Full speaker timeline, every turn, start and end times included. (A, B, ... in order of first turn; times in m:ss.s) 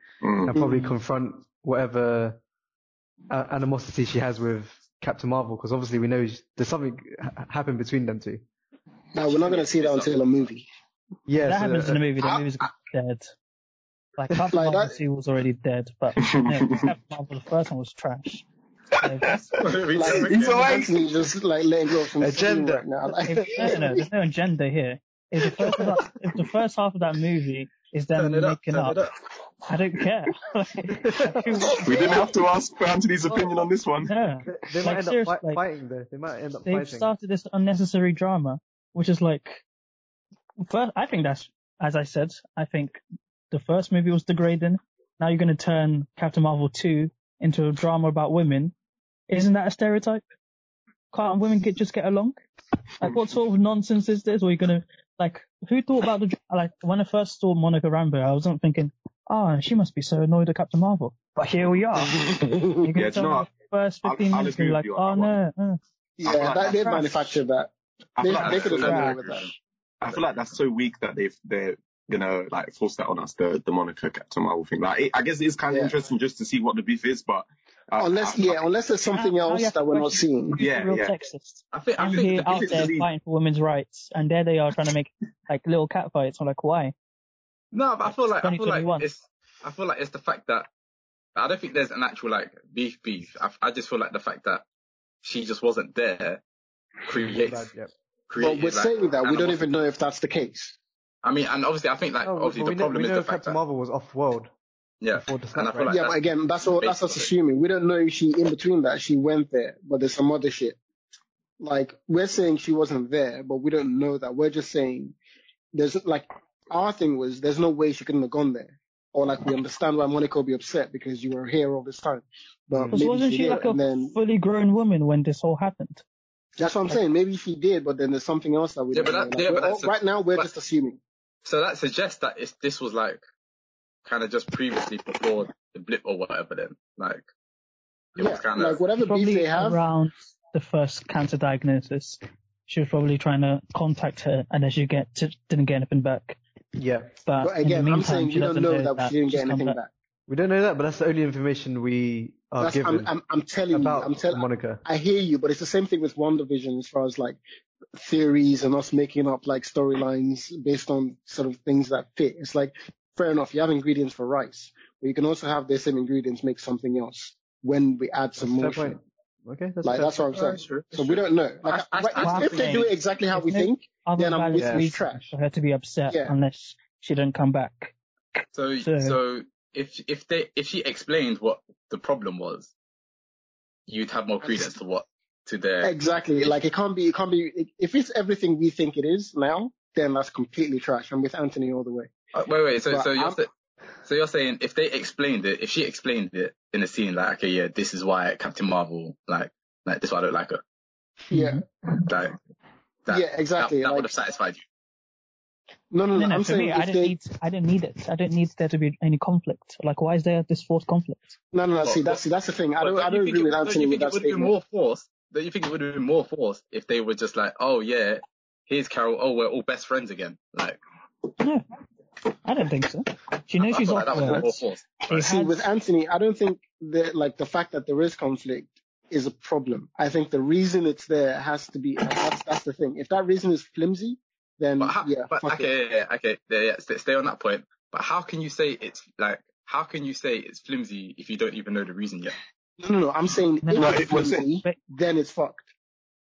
0:00.2-0:00.6 A
0:00.4-0:02.4 B
0:00.6-0:00.9 C
0:03.3-0:08.4 B
0:09.1-0:10.6 C
0:09.2-0:10.2 D
0:11.3-0:12.0 B
0:11.4-0:13.3 E
0:14.2-0:19.4 E
0:14.5-0:15.0 C
0:16.2-0:16.9 A
0:18.9-0:21.0 A
0:19.6-0:20.8 D
0:20.0-0:24.0 C
0:22.2-0:22.8 B
0:23.2-0:29.0 E
0:23.4-0:23.8 B
0:28.1-0:29.2 D
0:29.6-0:32.1 E
0:31.0-0:31.6 B
0:31.7-0:32.1 C
0:31.8-0:34.1 A
0:34.0-0:35.6 E
0:34.5-0:37.1 B
0:36.6-0:39.6 E
0:40.6-0:48.7 E
0:49.3-0:50.2 E
0:51.1-0:52.4 E
0:53.0-1:05.8 E
1:02.0-1:02.3 A
1:02.2-1:02.8 C
1:03.0-1:03.5 A
1:04.0-1:05.3 A
1:06.2-1:09.5 C
1:06.2-1:07.2 A
1:08.2-1:09.4 A
1:08.3-1:09.4 E
1:08.3-1:09.5 D
1:10.0-1:18.6 A
1:15.7-1:16.0 C
1:18.0-1:20.6 C
1:19.1-1:26.9 E
1:20.6-1:21.1 A
1:21.7-1:22.7 D
1:22.1-1:23.1 A
1:27.7-1:30.7 D
1:28.4-1:29.1 E
1:31.3-1:34.6 D
1:35.2-1:36.4 D
1:37.0-1:37.7 D
1:37.3-1:37.9 B
1:38.3-1:39.6 D
1:38.4-1:40.7 C
1:41.2-1:43.6 D
1:42.2-1:44.5 B
1:45.0-1:46.2 D
1:45.1-1:46.0 B
1:45.9-1:50.8 C
1:46.7-1:47.3 D
1:51.6-1:55.2 C
1:55.7-2:04.1 C
2:02.8-2:03.0 B
2:02.9-2:06.0 E
2:06.6-2:11.0 C
2:08.9-2:10.5 D
2:11.4-2:13.2 D
2:14.0-2:17.2 D
2:18.2-2:18.8 D
2:18.2-2:19.8 C
2:19.0-2:26.4 E
2:26.8-2:27.1 B
2:27.2-2:29.8 E
2:27.4-2:29.9 C
2:30.3-2:33.1 B
2:32.6-2:37.4 C
2:33.7-2:34.8 B
2:37.9-2:49.0 C
2:48.4-2:50.2 B
2:49.8-2:55.3 C
2:50.3-2:52.9 D
2:52.2-2:59.2 E
2:54.6-2:54.9 B
2:56.1-2:56.4 C
2:58.5-3:02.7 D
3:03.9-3:05.9 D
3:04.4-3:04.7 C
3:05.8-3:12.1 C
3:12.3-3:13.5 D
3:12.9-3:13.4 C
3:14.0-3:20.6 D
3:21.3-3:21.6 C
3:21.9-3:22.3 D
3:23.0-3:24.6 D
3:23.1-3:24.1 C
3:25.9-3:27.2 C
3:26.1-3:31.4 E
3:31.5-3:34.5 C
3:31.8-3:32.2 D
3:32.8-3:40.8 D
3:41.4-3:41.6 E
3:42.4-3:45.7 E
3:43.6-3:45.2 D
3:45.1-3:55.7 C
3:54.8-4:02.4 D
4:02.8-4:05.7 C
4:03.6-4:04.8 E
4:03.8-4:04.5 A